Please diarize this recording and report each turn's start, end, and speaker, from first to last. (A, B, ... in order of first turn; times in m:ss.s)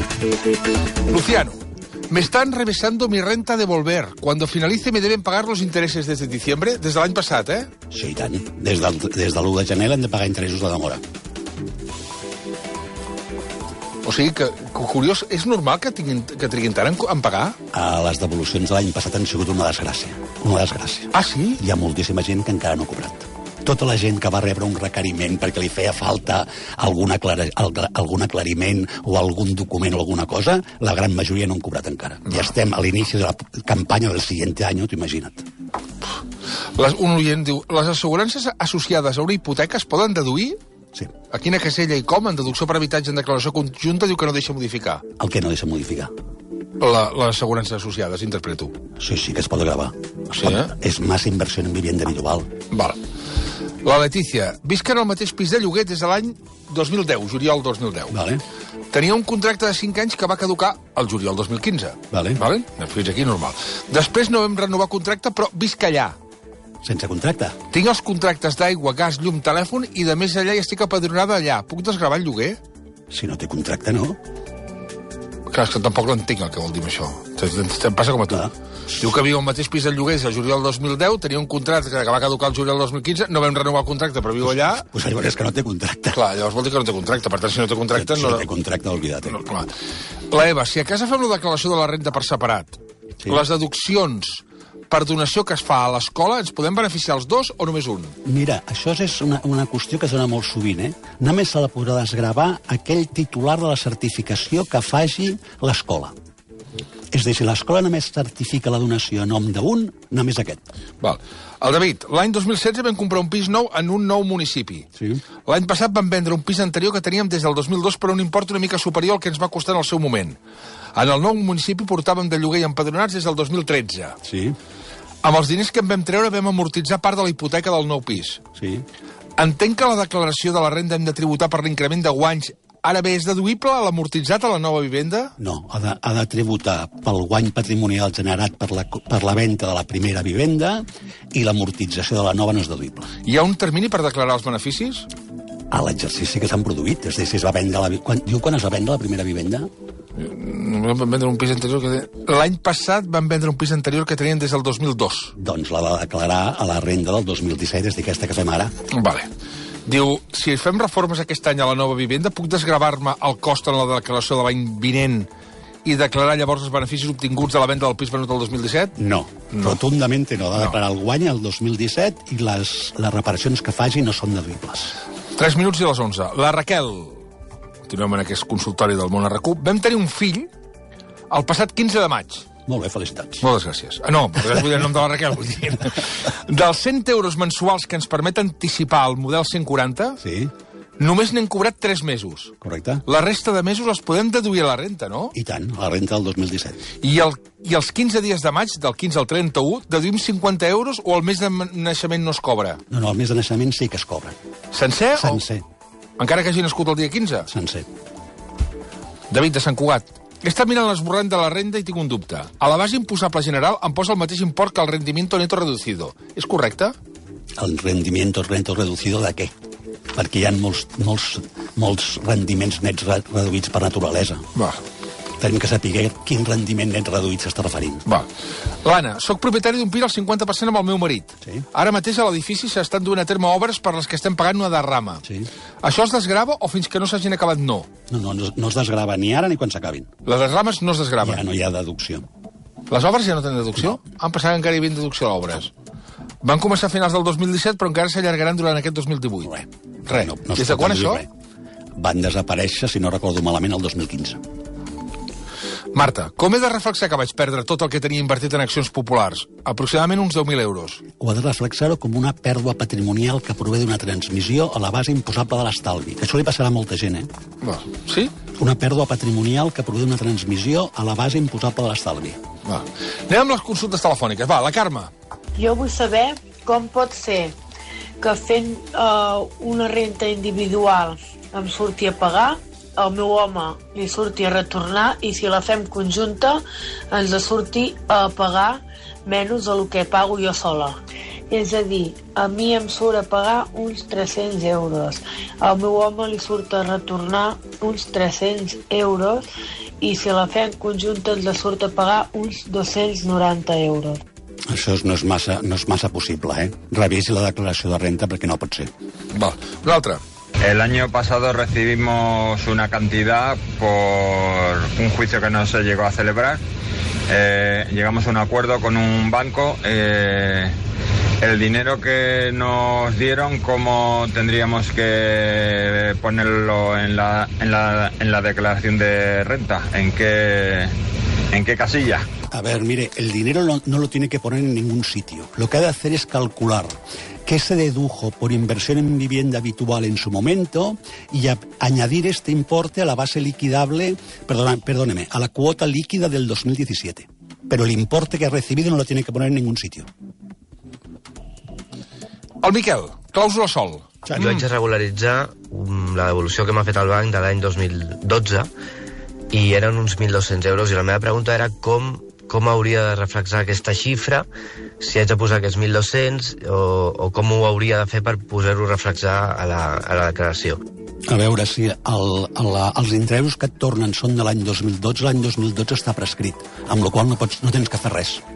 0:01.1-0:07.7 A
0:07.9-0:11.0 B
0:14.0-0:17.6 A
0:17.7-0:35.4 B
0:21.1-0:21.6 A
0:36.8-0:40.6 A
0:41.3-0:45.0 A
0:45.2-0:46.1 B
0:46.8-0:48.7 A
0:49.0-0:52.5 B
0:50.4-0:50.7 A
0:52.7-0:53.0 A
0:53.8-0:58.1 A
0:58.1-0:58.4 B
0:58.9-1:06.2 A
1:02.1-1:02.4 B
1:06.8-1:07.6 B
1:07.7-1:12.6 A
1:13.1-1:14.2 B
1:15.5-1:24.8 A
1:24.4-1:26.2 B
1:26.1-1:28.4 A
1:27.9-1:29.4 B
1:29.3-1:29.7 A
1:30.3-1:38.1 A
1:38.2-1:46.1 B
1:47.1-1:50.6 B
1:51.0-1:54.9 A
1:54.9-1:55.2 B
1:55.4-2:00.4 A
2:00.9-2:04.2 A
2:04.2-2:04.6 B
2:05.2-2:08.4 A
2:08.6-2:08.8 B
2:09.4-2:15.3 A
2:15.4-2:23.1 B
2:23.2-2:25.1 A
2:25.7-2:29.7 B
2:30.2-2:35.3 A
2:35.4-2:38.7 B
2:38.9-2:39.3 A
2:39.8-2:45.3 A
2:45.8-2:48.9 A
2:49.0-2:54.9 B
2:49.5-2:49.8 A
2:55.3-2:57.2 A
2:57.9-3:00.5 A
3:01.3-3:02.5 A
3:02.7-3:03.4 B
3:03.4-3:10.2 A
3:10.2-3:10.5 B
3:11.0-3:12.5 A
3:12.6-3:13.0 B
3:13.0-3:15.3 A
3:15.3-3:16.8 B
3:17.0-3:22.8 A
3:22.9-3:24.4 B
3:24.7-3:25.4 A
3:25.1-3:25.6 B
3:26.2-3:27.5 A
3:27.5-3:27.9 B
3:29.3-3:36.9 A
3:37.6-3:39.5 B
3:40.1-3:44.4 B
3:44.5-3:44.8 A
3:45.4-3:48.0 B
3:48.8-3:55.2 A
3:55.2-3:55.5 B
3:55.8-3:57.9 A
3:58.1-4:00.1 B
4:00.2-4:01.4 A
4:01.2-4:02.3 B
4:02.9-4:05.7 A
4:06.4-4:09.5 A
4:09.4-4:11.3 B
4:10.1-4:11.2 A
4:12.0-4:14.4 B
4:15.9-4:21.0 A
4:21.2-4:27.3 B
4:27.6-4:28.3 A
4:28.6-4:32.4 B
4:32.6-4:35.1 A
4:35.6-4:37.5 C
4:38.2-4:51.0 C
4:51.5-4:59.4 C
5:00.0-5:04.2 C
5:04.7-5:08.9 B
5:09.3-5:10.2 A
5:10.6-5:16.6 D
5:17.3-5:20.7 D
5:21.4-5:30.9 D
5:31.5-5:32.2 D
5:32.5-5:50.1 B
5:52.6-5:54.6 A
5:54.3-5:54.5 B
5:54.3-5:58.7 E
5:59.5-6:04.5 E
6:05.0-6:10.8 E
6:11.3-6:18.4 B